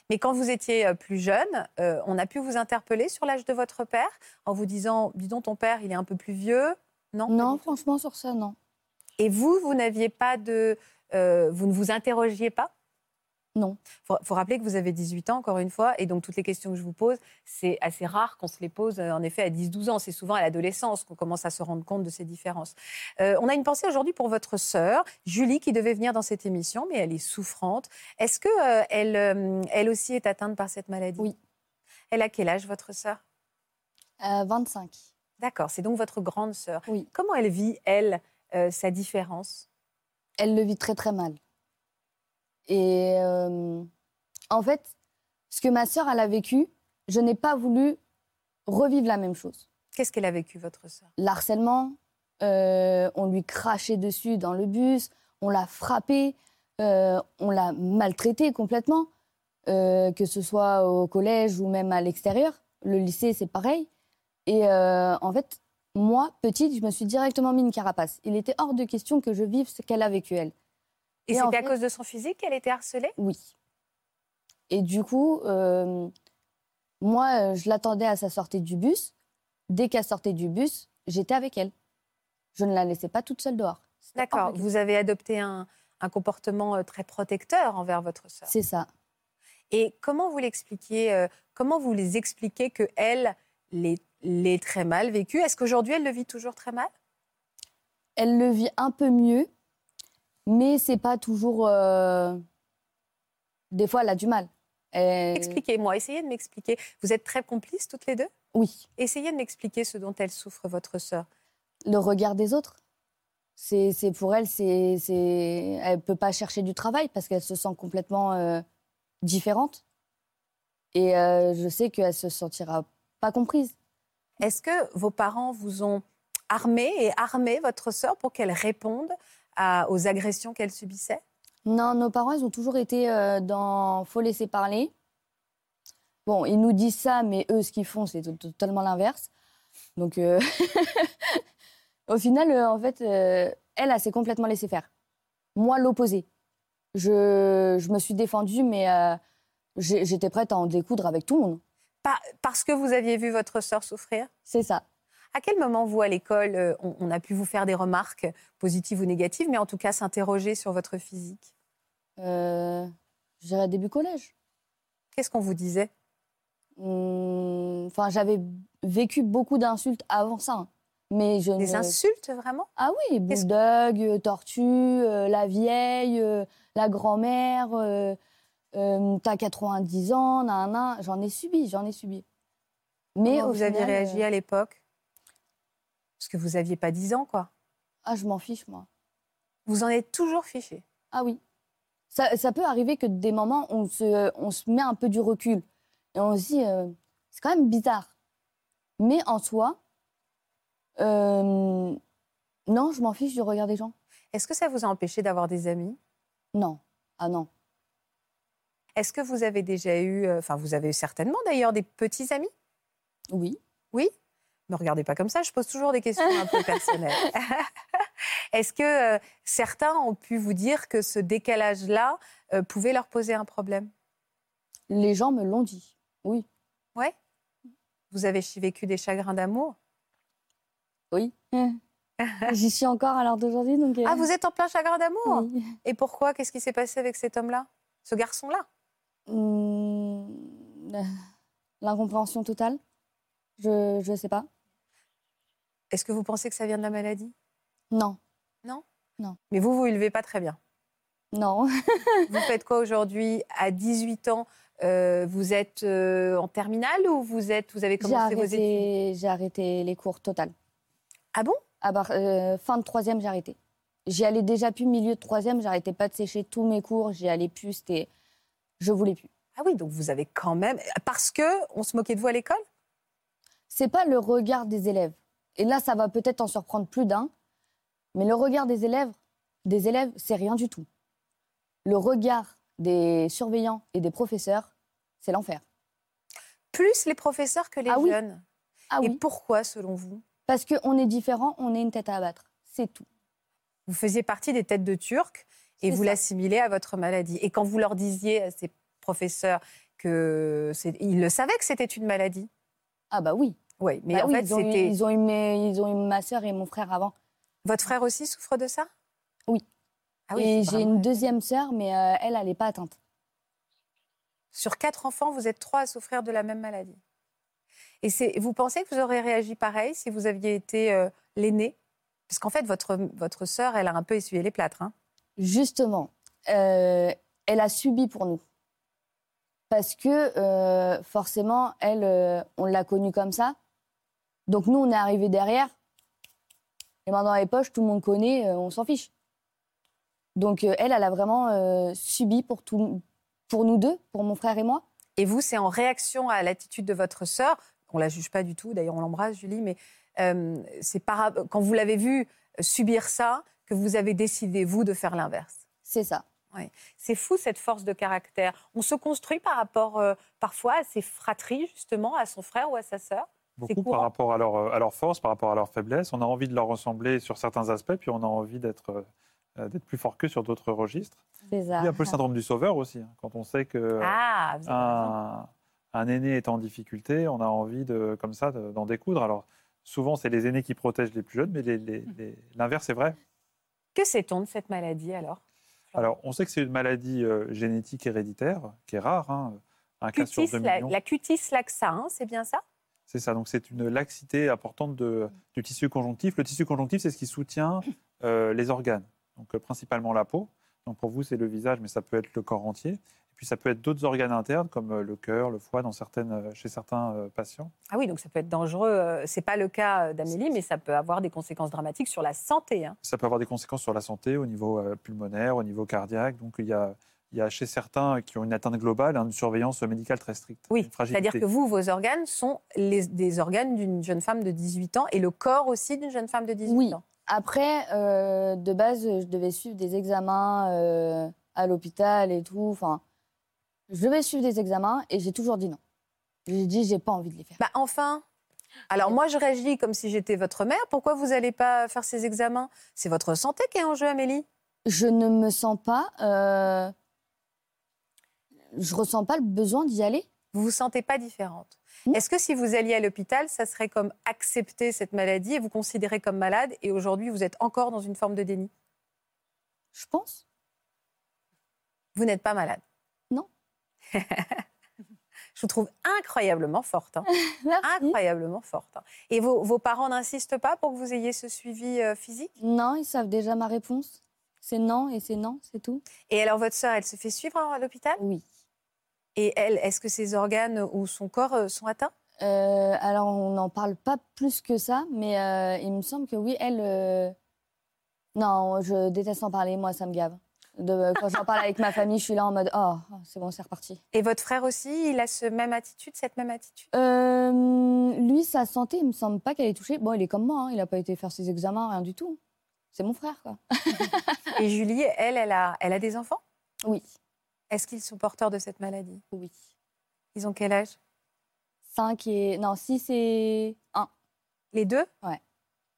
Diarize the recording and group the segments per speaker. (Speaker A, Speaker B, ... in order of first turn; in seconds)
Speaker A: 0.1-7.7, 9.2-12.7, 14.1-31.3, 32.1-33.2, 35.4-39.7, 49.9-51.1, 71.3-73.2, 84.2-88.5, 89.7-96.9, 105.3-108.3, 109.0-111.3, 124.4-131.2, 152.0-154.3, 155.3-161.5, 165.2-165.9, 171.6-172.7, 183.3-184.8, 186.2-187.5, 189.7-190.8, 204.3-206.0, 209.0-212.5, 214.7-217.7, 218.5-223.9, 228.1-229.8, 232.2-232.5, 234.0-238.7, 245.9-247.3, 249.5-250.6, 252.3-258.9, 261.3-261.6, 269.6-272.6, 286.7-288.4, 289.0-290.2, 293.9-302.5, 303.8-304.9, 307.6-308.9, 310.3-311.2, 314.5-317.0, 318.0-321.8, 322.3-324.9, 345.2-355.6, 356.5-364.1, 374.0-375.1, 383.9-385.4, 390.1-392.6, 407.9-413.0, 420.7-427.0, 437.6-438.2, 438.9-444.4, 450.5-458.7, 462.2-462.8, 464.1-464.6, 465.6-467.3, 467.8-472.5, 476.3-478.2, 479.4-482.1, 494.1-496.9, 504.5-506.4, 507.7-509.2, 510.4-511.0, 514.7-515.1
Speaker B: 7.3-8.6, 34.2-35.0, 40.4-41.4, 42.7-43.9, 44.5-44.9, 45.5-48.0, 48.7-49.6, 51.2-59.1, 59.7-63.9, 64.5-70.5, 71.3-71.7, 73.2-73.5, 74.7-76.1, 77.0-79.1, 79.7-81.7, 82.5-84.7, 88.5-88.9, 98.2-99.5, 100.5-102.4, 103.7-105.6, 108.5-108.9, 111.8-112.8, 113.6-118.6, 119.2-119.8, 120.9-123.8, 131.7-134.9, 136.3-139.3, 140.0-141.4, 142.1-144.9, 145.6-146.3, 146.9-149.2, 149.8-151.6, 154.5-154.8, 162.2-164.3, 166.8-172.0, 172.8-178.2, 178.7-182.2, 183.2-184.2, 188.1-188.9, 191.1-191.4, 192.1-198.1, 199.0-199.8, 201.0-202.0, 202.7-203.9, 206.5-207.5, 213.3-213.6, 216.4-217.0, 224.9-226.5, 231.1-231.8, 232.5-234.3, 235.3-235.8, 239.3-241.1, 241.8-242.8, 243.6-244.5, 247.9-248.2, 251.3-252.4, 258.0-260.5, 261.8-268.1, 268.8-269.3, 273.7-277.3, 278.1-280.9, 281.9-285.6, 287.9-288.2, 288.9-289.2, 290.5-293.1, 295.9-296.2, 303.1-303.6, 304.1-307.1, 310.4-313.0, 325.4-328.4, 329.7-333.6, 334.5-335.7, 337.1-339.1, 340.4-344.8, 355.9-356.2, 371.5-372.2, 426.7-433.0, 433.9-435.8, 436.5-437.6, 444.9-446.9, 448.7-450.3, 459.9-460.4, 467.3-468.2, 472.6-476.1, 478.2-478.4, 482.4-487.4, 488.4-494.0, 496.9-502.4, 502.9-504.5, 506.8-507.1, 509.3-509.6, 511.9-514.1
Speaker C: 363.6-369.1, 369.6-371.2, 371.8-383.2, 386.0-390.9, 393.1-407.7, 413.0-421.4